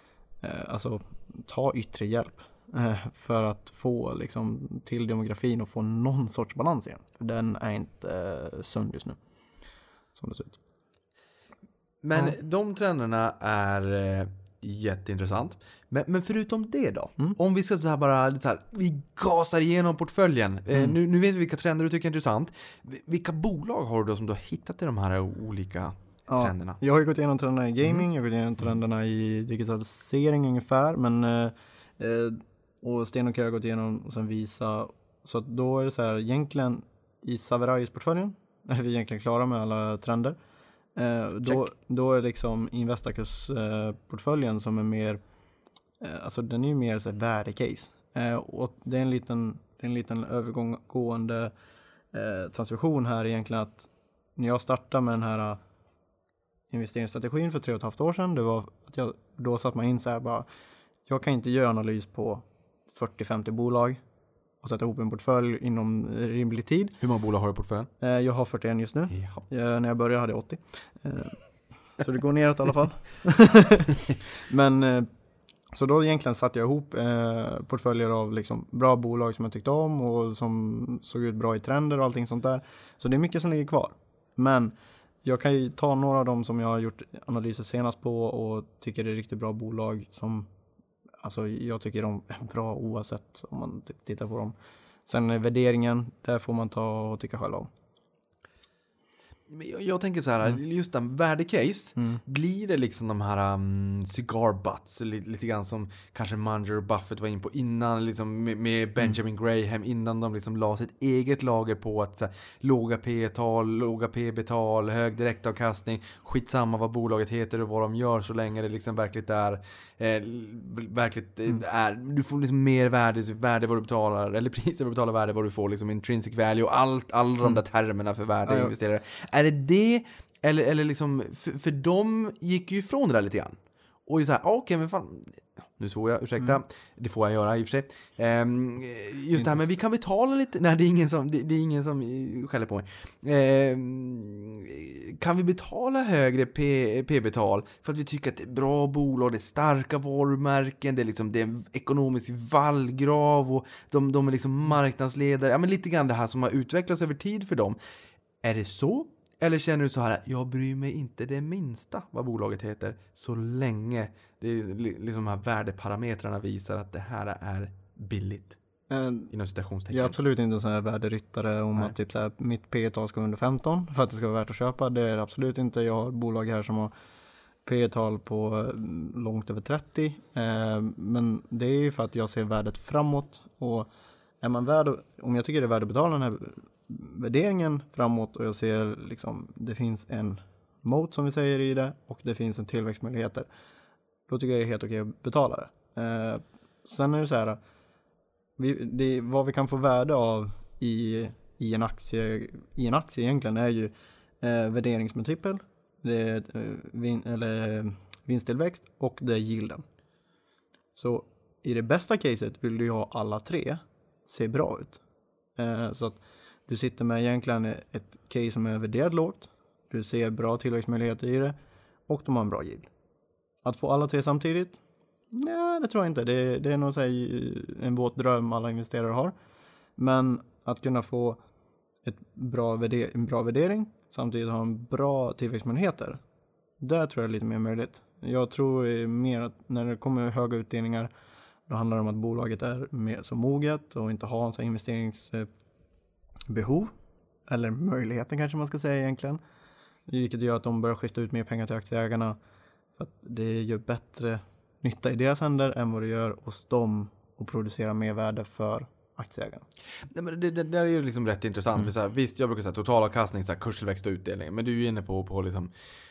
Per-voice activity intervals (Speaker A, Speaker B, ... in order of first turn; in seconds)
Speaker A: 0.4-9.2, 10.1-10.6, 26.3-40.4, 41.0-45.2, 46.0-51.5, 52.1-55.6, 56.7-60.5, 61.1-64.0, 64.6-67.0, 68.0-71.4, 72.0-75.1, 75.7-90.5, 91.2-94.5, 95.0-97.7, 128.5-128.7, 168.9-169.3, 169.9-176.9, 177.6-183.9, 184.4-193.5, 194.3-197.6, 198.6-209.8, 210.9-215.0, 215.6-221.6, 222.1-222.9, 223.6-224.8, 225.3-229.3, 230.0-231.4, 232.1-236.2, 236.8-241.1, 241.7-245.5, 246.5-246.9, 247.5-249.4, 250.1-252.4, 253.0-259.6
Speaker B: 12.0-26.8, 41.5-41.7, 67.0-67.9, 69.1-69.4, 99.5-133.6, 134.1-157.8, 158.4-168.6, 169.3-170.2, 260.1-265.7